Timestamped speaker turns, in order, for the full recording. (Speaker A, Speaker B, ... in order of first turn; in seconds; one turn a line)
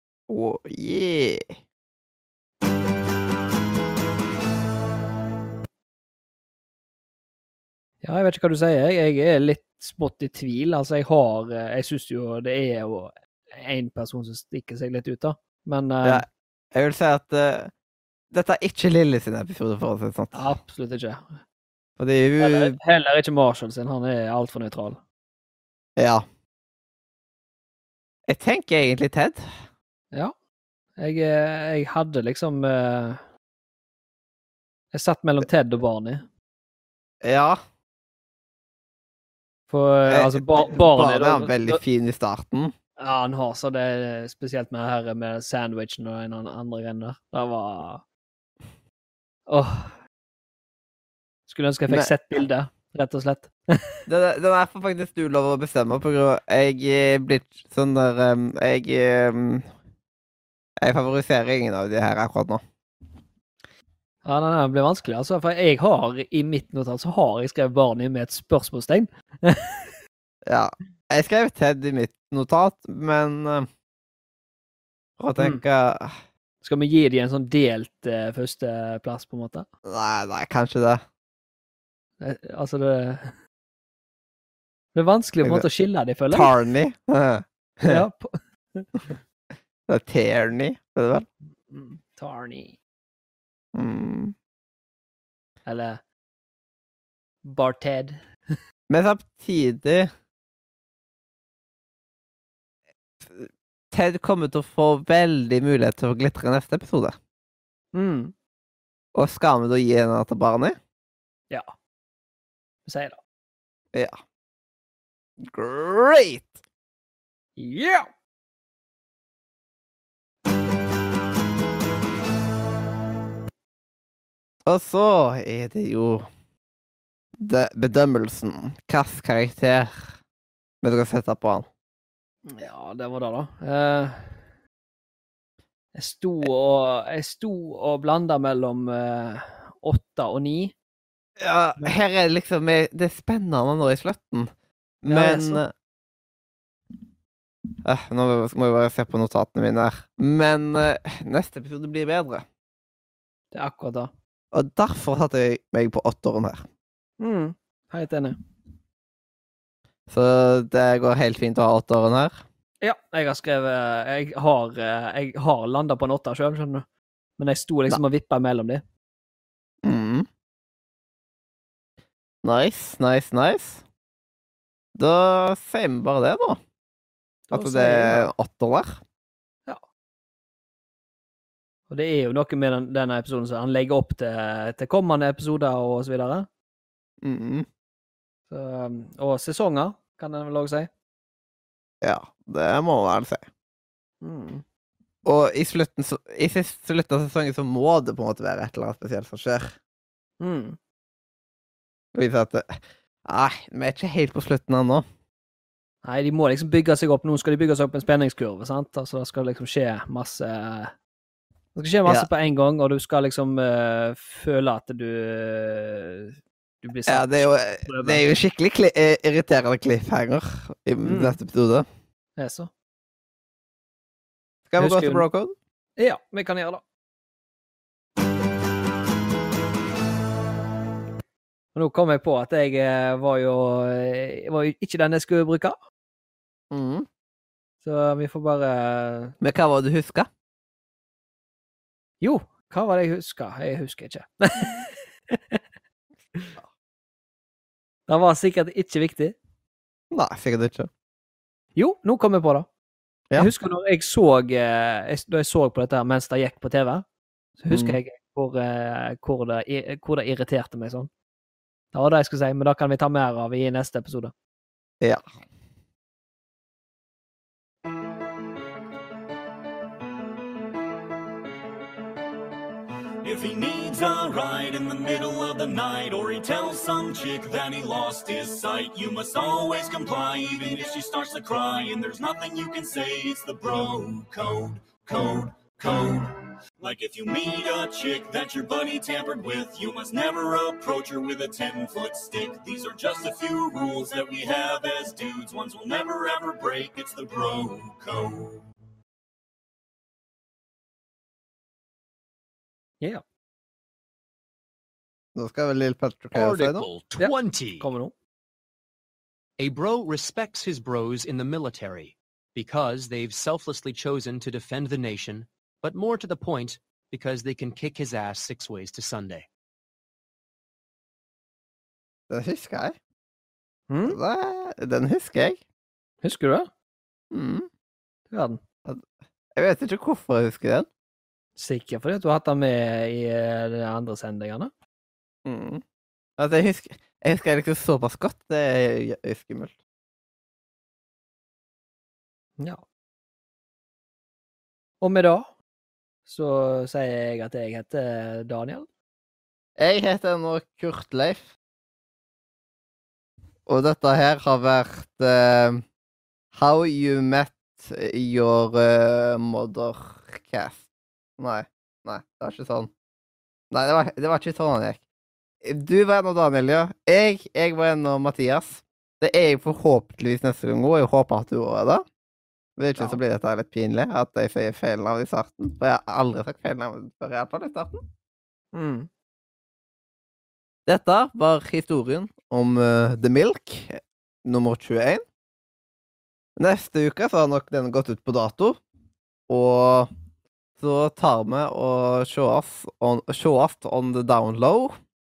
Speaker A: 0.3-1.5
Speaker B: 8.0-16.2
Speaker A: 16.0-17.7
Speaker A: 18.3-20.6
Speaker B: 20.3-21.4
Speaker A: 22.0-22.8
Speaker B: 22.4-25.0
Speaker A: 26.0-26.2
Speaker A: 28.3-29.4
Speaker B: 31.0-33.2
Speaker B: 34.9-36.3
Speaker A: 37.2-37.6
Speaker B: 39.7-41.8
Speaker A: 40.1-42.7
Speaker B: 43.0-48.0
Speaker B: 49.5-50.0
Speaker B: 51.5-53.6
Speaker A: 54.1-59.7
Speaker A: 60.8-62.6
Speaker B: 64.2-69.9
Speaker A: 70.5-73.7
Speaker A: 75.2-76.2
Speaker B: 76.6-79.7
Speaker A: 79.8-81.0
Speaker B: 82.2-83.3
Speaker B: 84.9-86.5
Speaker A: 86.3-88.0
Speaker B: 87.8-89.2
Speaker A: 89.9-91.3
Speaker B: 91.5-92.8
Speaker A: 93.7-94.3
Speaker B: 95.7-96.0
Speaker B: 97.4-98.3
Speaker A: 98.9-100.1
Speaker A: 103.2-107.2
Speaker B: 107.9-108.3
Speaker A: 109.1-110.8
Speaker B: 112.8-113.2
Speaker A: 115.4-116.6
Speaker B: 117.6-118.1
Speaker A: 124.7-126.3
Speaker A: 127.4-130.2
Speaker A: 130.8-131.7
Speaker B: 132.5-134.5
Speaker B: 135.9-140.7
Speaker A: 141.4-144.5
Speaker A: 145.0-145.7
Speaker B: 145.1-145.6
Speaker A: 147.8-152.4
Speaker B: 153.5-154.1
Speaker A: 154.5-156.7
Speaker B: 157.2-158.3
Speaker A: 160.1-162.4
Speaker B: 162.8-166.8
Speaker B: 167.4-168.8
Speaker A: 169.8-170.2
Speaker A: 172.4-173.8
Speaker A: 174.9-176.6
Speaker B: 177.5-178.3
Speaker A: 177.5-179.0
Speaker B: 181.9-186.5
Speaker A: 187.2-187.7
Speaker B: 188.5-190.9
Speaker A: 192.0-193.4
Speaker B: 194.2-194.6
Speaker A: 195.2-199.8
Speaker B: 200.4-200.8
Speaker A: 202.1-205.0
Speaker B: 206.0-210.9
Speaker B: 211.7-218.3
Speaker A: 217.1-221.8
Speaker B: 221.0-221.4
Speaker B: 222.4-222.7
Speaker A: 224.7-225.5
Speaker B: 224.8-225.2
Speaker B: 226.0-226.8
Speaker B: 231.7-235.8
Speaker A: 236.7-237.1
Speaker B: 237.8-239.3
Speaker A: 239.4-240.3
Speaker B: 242.2-245.6
Speaker B: 248.1-249.3
Speaker A: 250.1-250.9
Speaker B: 251.8-252.7
Speaker B: 253.3-257.0
Speaker B: 257.6-261.1
Speaker A: 257.7-258.0
Speaker B: 261.9-264.3
Speaker C: 273.2-298.6
Speaker A: 305.3-306.9
Speaker D: 306.3-307.9
Speaker B: 307.2-308.1
Speaker D: 309.6-319.5
Speaker A: 322.3-323.0
Speaker B: 323.9-324.2
Speaker A: 324.0-325.6
Speaker B: 326.2-326.7
Speaker A: 327.3-327.7
Speaker B: 328.3-328.6
Speaker A: 328.8-330.9
Speaker B: 331.6-334.7
Speaker A: 335.4-335.8
Speaker A: 336.4-339.8
Speaker B: 345.0-345.5
Speaker B: 346.2-348.9
Speaker A: 349.8-351.5
Speaker A: 353.6-355.8
Speaker A: 356.5-360.8
Speaker A: 361.4-362.9
Speaker A: 363.7-365.0
Speaker A: 365.6-372.0
Speaker A: 372.8-378.0
Speaker B: 378.7-379.1
Speaker A: 380.9-385.2
Speaker A: 386.6-388.8
Speaker A: 389.5-390.1
Speaker A: 390.8-395.0